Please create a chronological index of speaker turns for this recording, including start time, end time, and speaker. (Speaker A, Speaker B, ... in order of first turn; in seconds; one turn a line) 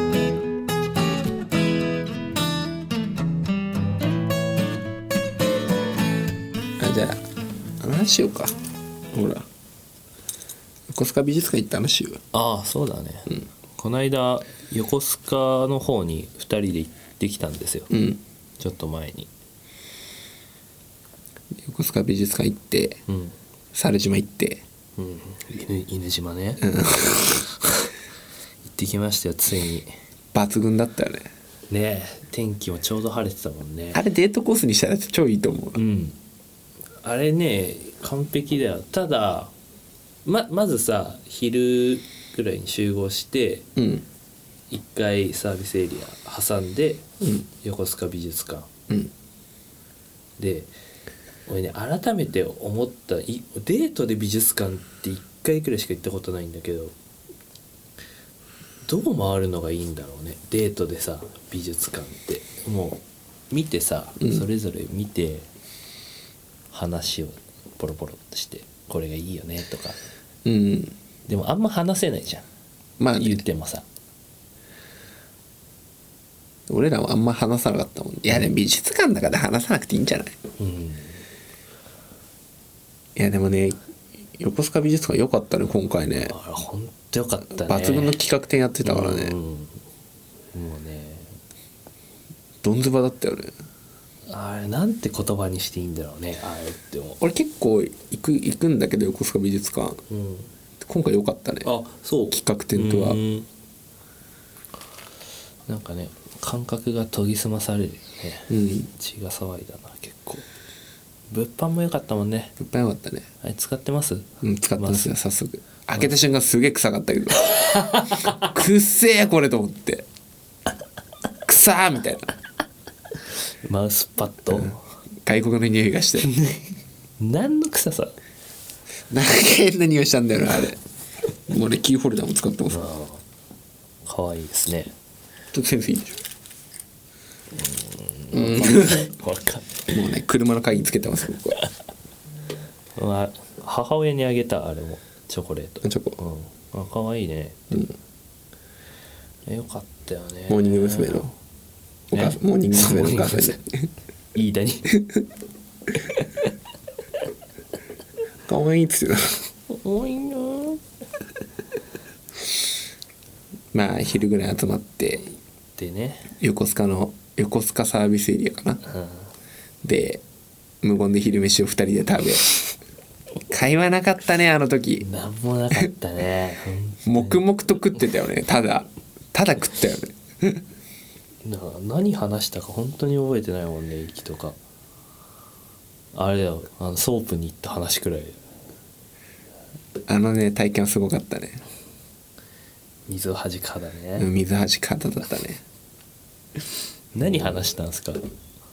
Speaker A: 6.8-7.2
Speaker A: 7.8-8.5
Speaker A: 9.1-9.5
Speaker A: 10.9-12.2
Speaker B: 12.3-17.9
Speaker A: 17.9-18.2
Speaker B: 18.6-19.3
Speaker A: 21.6-23.0
Speaker B: 23.1-23.3
Speaker A: 23.7-24.6
Speaker B: 25.0-27.9
Speaker A: 26.6-27.4
Speaker B: 28.7-29.9
Speaker A: 30.3-31.3
Speaker B: 31.7-34.0
Speaker A: 33.9-35.8
Speaker B: 35.8-36.1
Speaker B: 37.0-39.5
Speaker B: 40.2-43.6
Speaker A: 43.8-44.0
Speaker B: 44.7-47.0
Speaker A: 47.2-47.5
Speaker B: 47.5-48.7
Speaker B: 50.4-50.7
Speaker B: 51.5-56.9
Speaker B: 58.8-65.5
Speaker A: 64.2-64.5
Speaker B: 66.7-70.0
Speaker A: 70.4-71.0
Speaker B: 71.3-72.4
Speaker A: 73.0-73.4
Speaker B: 73.2-73.8
Speaker A: 76.7-80.3
Speaker B: 80.6-81.2
Speaker A: 83.2-83.8
Speaker A: 84.4-86.3
Speaker B: 86.2-88.2
Speaker A: 87.6-89.3
Speaker B: 88.8-89.8
Speaker B: 90.5-91.3
Speaker A: 92.6-93.5
Speaker B: 94.3-97.2
Speaker A: 97.2-100.0
Speaker B: 100.1-100.5
Speaker A: 100.8-101.7
Speaker B: 101.6-103.5
Speaker A: 102.3-103.2
Speaker B: 105.7-110.5
Speaker A: 108.5-108.9
Speaker B: 111.3-112.5
Speaker A: 112.6-113.2
Speaker B: 113.4-115.1
Speaker A: 114.4-120.0
Speaker B: 117.5-118.4
Speaker A: 121.5-122.3
Speaker B: 123.6-124.8
Speaker A: 125.2-126.3
Speaker B: 126.3-126.6
Speaker B: 127.2-128.2
Speaker A: 129.1-130.8
Speaker A: 131.5-132.9
Speaker B: 132.7-133.2
Speaker B: 134.1-134.9
Speaker A: 135.5-136.2
Speaker B: 137.5-140.1
Speaker A: 138.3-139.1
Speaker A: 139.9-141.6
Speaker B: 142.9-147.8
Speaker A: 145.8-146.2
Speaker B: 149.4-151.3
Speaker A: 150.5-151.3
Speaker A: 152.1-153.9
Speaker B: 152.1-153.6
Speaker B: 154.3-154.9
Speaker A: 154.9-155.2
Speaker A: 158.5-159.4
Speaker B: 159.7-160.8
Speaker A: 163.7-165.3
Speaker B: 165.8-166.3
Speaker A: 166.4-168.8
Speaker B: 168.8-169.3
Speaker A: 169.8-170.2
Speaker A: 170.8-172.6
Speaker A: 173.5-175.1
Speaker B: 175.0-177.4
Speaker A: 177.0-180.6
Speaker B: 181.4-184.6
Speaker B: 186.1-188.4
Speaker A: 190.1-191.6
Speaker B: 193.1-194.3
Speaker A: 194.2-195.6
Speaker B: 197.1-198.2
Speaker A: 197.2-197.7